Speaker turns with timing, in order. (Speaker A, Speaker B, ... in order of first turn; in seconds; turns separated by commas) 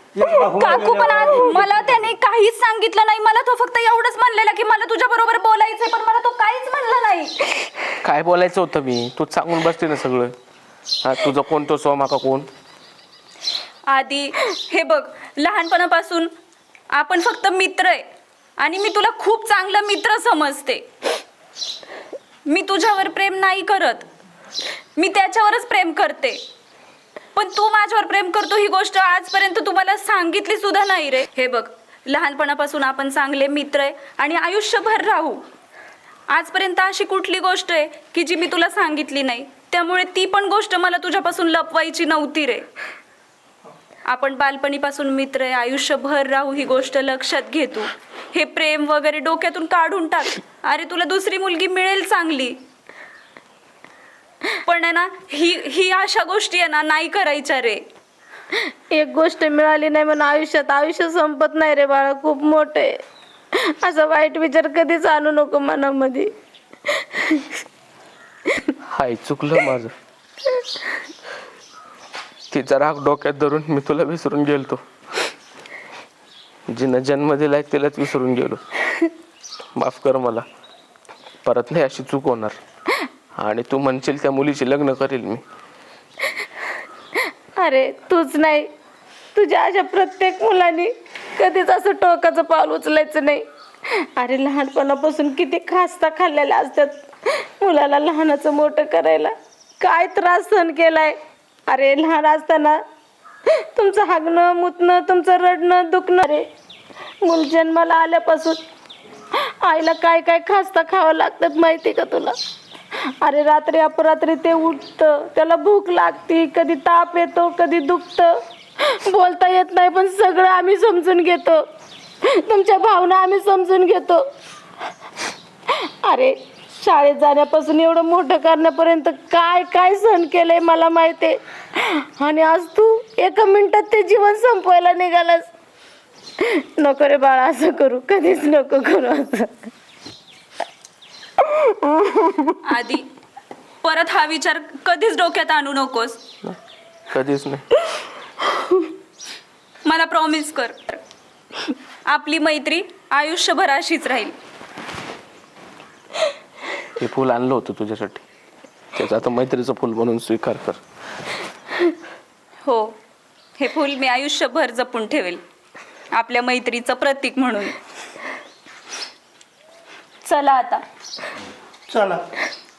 Speaker A: 0.1-1.9, Speaker B: 0.5-7.4, Speaker C: 8.0-10.3, Speaker C: 11.0-12.5, Speaker B: 13.9-16.3, Speaker B: 16.9-18.0, Speaker B: 18.6-20.8, Speaker B: 22.5-24.1, Speaker B: 25.0-26.4, Speaker B: 27.4-35.4, Speaker B: 36.3-42.7, Speaker B: 44.1-52.6, Speaker B: 54.7-57.8, Speaker D: 58.9-62.9, Speaker D: 63.7-66.3, Speaker D: 67.2-67.5, Speaker C: 68.9-69.9, Speaker C: 72.5-74.8, Speaker C: 76.7-78.6, Speaker C: 79.8-80.5, Speaker C: 81.5-82.6, Speaker C: 83.4-85.4, Speaker D: 87.6-88.7, Speaker D: 89.3-93.4, Speaker D: 94.2-101.2, Speaker D: 101.7-102.8, Speaker D: 103.8-106.4, Speaker D: 107.2-108.6, Speaker D: 109.6-112.3, Speaker D: 113.2-121.6, Speaker D: 122.3-124.2, Speaker D: 125.7-135.5, Speaker D: 136.4-139.5, Speaker B: 142.6-143.1, Speaker B: 143.8-146.2, Speaker C: 147.1-147.7, Speaker B: 149.9-151.0, Speaker B: 152.1-154.3, Speaker C: 157.0-158.2, Speaker C: 158.9-160.8, Speaker B: 162.6-162.9, Speaker B: 163.6-165.4, Speaker B: 166.1-167.8, Speaker B: 170.2-170.8, Speaker A: 171.9-172.2